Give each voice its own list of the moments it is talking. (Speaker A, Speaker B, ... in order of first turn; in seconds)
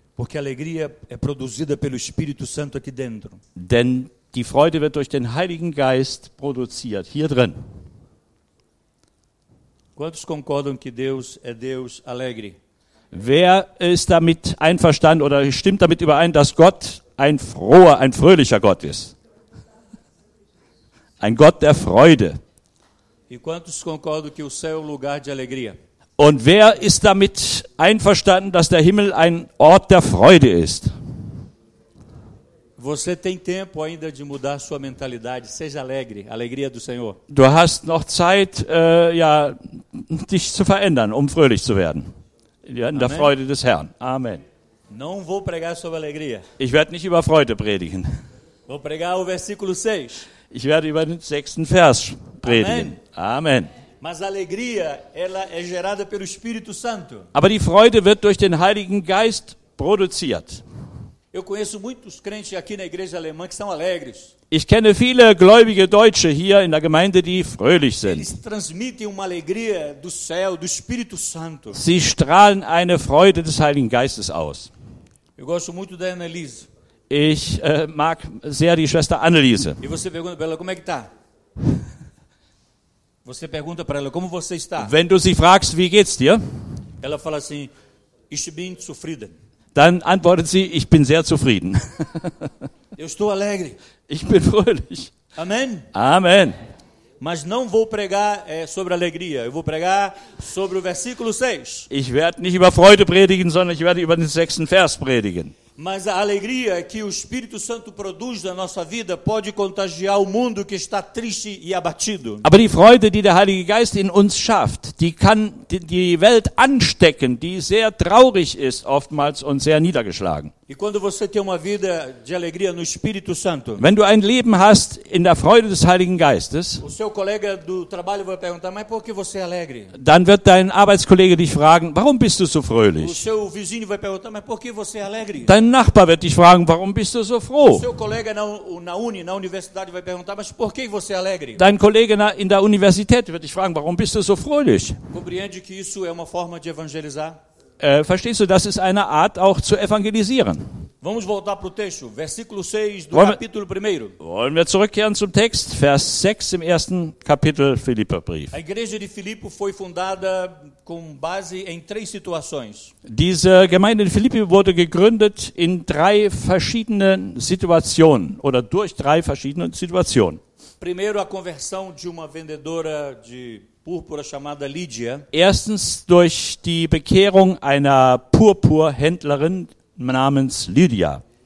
Speaker A: 0.2-3.4, 10.0-12.6, 23.3-25.8, 32.8-37.2, 42.9-43.3, 44.9-46.5, 48.7-50.3, 52.4-53.0, 54.0-57.3, 61.3-64.3, 68.0-71.8, 75.4-76.7, 79.8-81.1, 83.2-84.9, 87.0-87.7, 88.3-89.3, 93.0-93.8, 95.3-95.9, 97.2-101.9, 105.8-112.4, 120.7-123.8, 126.8-129.9, 133.0-135.5, 137.7-141.6, 145.1-147.4, 151.0-154.2, 158.5-162.9, 170.8-175.3
Speaker B: 3.5-7.6, 13.1-19.1, 21.2-22.4, 26.2-30.9, 37.3-42.1, 42.6-44.4, 46.6-48.1, 50.5-53.7, 57.3-60.6, 64.5-68.3, 71.7-74.7, 77.1-79.8, 84.8-86.4, 89.7-92.5, 94.1-95.1, 95.9-96.5, 101.9-105.5, 112.4-120.5, 123.8-126.8, 129.9-133.2, 135.4-137.9, 141.6-145.0, 147.8-150.6, 153.1-153.4, 154.2-158.5, 163.1-170.4, 175.3-181.2